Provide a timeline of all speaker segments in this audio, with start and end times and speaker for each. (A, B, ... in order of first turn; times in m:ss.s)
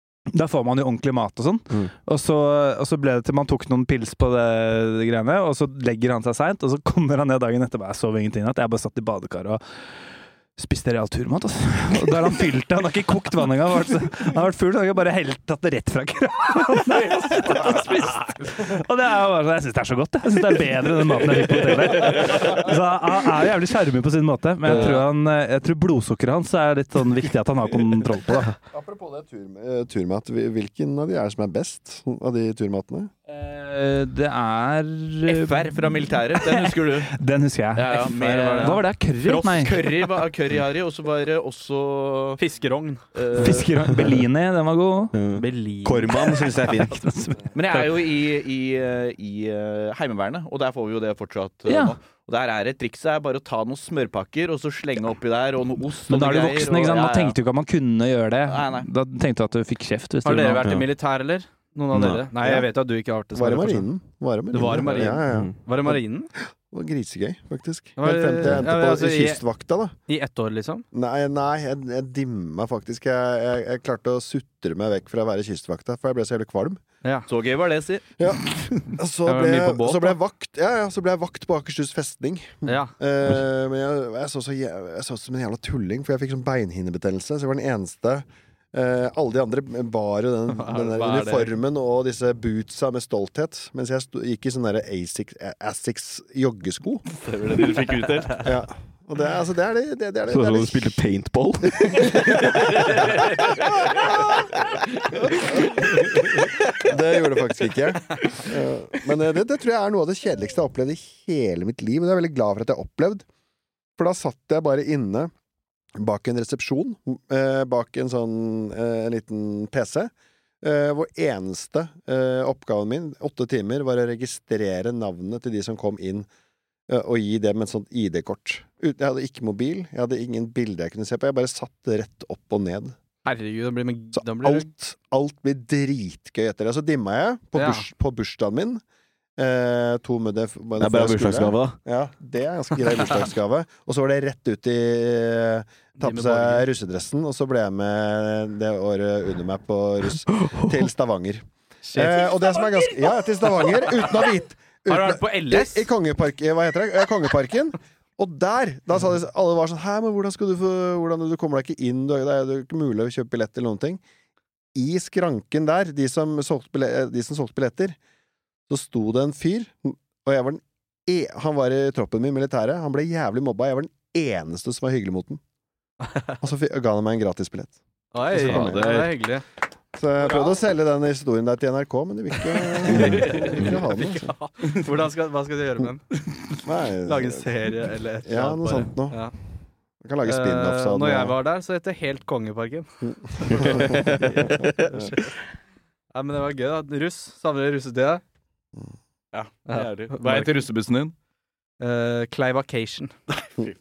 0:00.3-0:09.6 A
0:10.6-0:28.6 A
0:24.7-0:25.0 B
0:28.7-0:33.1 C
0:33.3-0:39.9 A
0:35.3-0:37.2 D
0:37.8-0:42.4 D
0:37.9-0:38.8 B
0:42.4-0:43.0 B
0:43.2-0:43.6 D
0:43.4-0:45.1 A
0:45.1-0:47.1 E
0:45.4-0:46.5 B
0:46.9-0:47.9 A
0:47.6-0:57.4 D
0:51.7-0:52.0 A
0:56.1-1:00.7 A
0:58.5-0:58.9 D
1:00.2-1:03.9 B
1:00.6-1:00.9 E
1:01.9-1:02.3 E
1:02.4-1:02.7 C
1:03.3-1:06.0 C
1:04.5-1:06.3 B
1:05.3-1:05.6 E
1:06.7-1:09.9 C
1:08.0-1:09.4 B
1:10.1-1:10.9 B
1:10.9-1:16.8 C
1:17.3-1:18.0 D
1:18.2-1:37.0 C
1:19.2-1:20.2 B
1:22.6-1:22.9 B
1:30.5-1:31.5 B
1:37.2-1:38.4 B
1:37.5-1:38.2 D
1:38.4-1:41.0 C
1:40.3-1:43.1 E
1:41.9-1:42.9 C
1:46.8-1:53.2 C
1:54.0-1:55.3 C
1:56.0-2:00.1 C
2:00.6-2:06.3 C
2:06.9-2:13.0 C
2:13.2-2:14.7 B
2:14.1-2:18.8 C
2:17.6-2:17.9 B
2:19.4-2:44.0 C
2:20.8-2:21.8 E
2:26.0-2:26.7 B
2:31.8-2:32.8 B
2:34.9-2:35.9 B
2:44.8-2:48.0 C
2:48.7-2:55.4 C
2:56.1-2:56.4 B
2:56.4-2:57.8 C
2:58.1-2:59.4 B
2:58.3-2:59.2 C
2:58.5-2:58.8 E
3:00.0-3:04.3 C
3:02.8-3:09.3 B
3:02.9-3:03.7 E
3:06.6-3:07.5 C
3:08.2-3:09.2 C
3:10.0-3:11.4 C
3:10.2-3:15.3 B
3:13.6-3:13.9 C
3:13.6-3:14.9 E
3:16.1-3:18.2 B
3:19.3-3:21.1 D
3:19.7-3:20.5 B
3:21.8-3:23.1 B